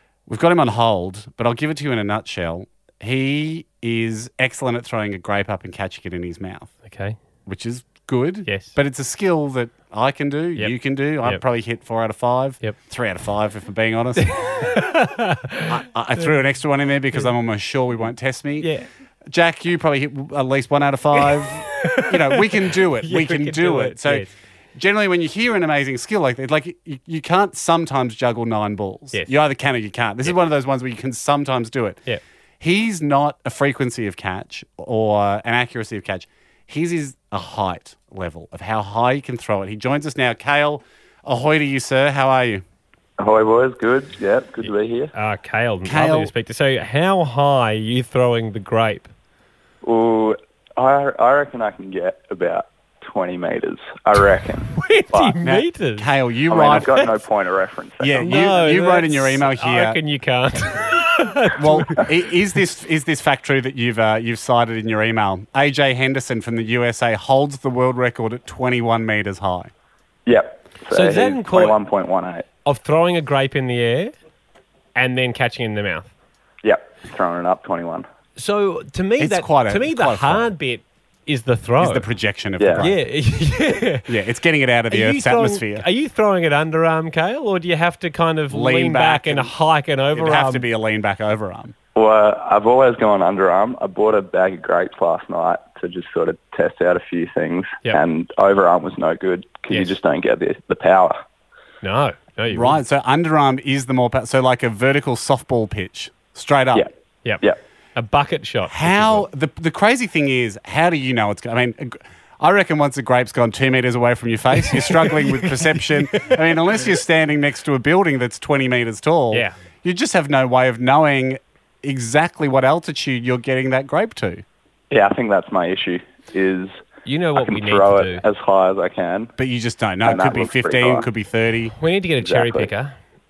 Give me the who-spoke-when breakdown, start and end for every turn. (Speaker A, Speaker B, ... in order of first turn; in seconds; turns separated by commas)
Speaker A: 0.3-6.7, Speaker B: 6.8-7.2, Speaker A: 7.5-14.4, Speaker B: 8.5-8.8, Speaker B: 10.6-11.4, Speaker B: 14.2-16.3, Speaker A: 15.7-18.7, Speaker B: 18.6-18.9, Speaker A: 19.3-32.0, Speaker B: 21.8-24.3, Speaker A: 32.6-42.6, Speaker C: 43.2-45.1, Speaker B: 45.1-49.1, Speaker A: 45.9-46.3, Speaker C: 49.8-55.3, Speaker B: 54.7-56.1, Speaker A: 55.4-57.1, Speaker C: 56.5-58.5, Speaker A: 58.0-60.0, Speaker B: 58.2-62.1, Speaker A: 61.6-69.7, Speaker C: 70.3-72.5, Speaker B: 70.9-71.8, Speaker B: 72.7-74.1, Speaker B: 75.0-76.1, Speaker C: 76.6-78.1, Speaker B: 78.4-82.1, Speaker A: 79.2-80.5, Speaker A: 81.8-83.0, Speaker B: 82.8-84.1, Speaker A: 84.1-85.9, Speaker B: 84.9-90.7, Speaker A: 88.5-89.5, Speaker A: 90.1-91.7, Speaker C: 92.0-101.2, Speaker B: 101.8-102.8, Speaker A: 102.5-106.9, Speaker B: 108.0-109.2, Speaker A: 108.7-124.4, Speaker B: 114.6-116.4, Speaker C: 124.9-126.7, Speaker B: 127.1-128.2, Speaker C: 127.4-129.3, Speaker A: 129.4-131.7, Speaker C: 130.1-131.1, Speaker B: 131.8-132.9, Speaker C: 132.2-132.7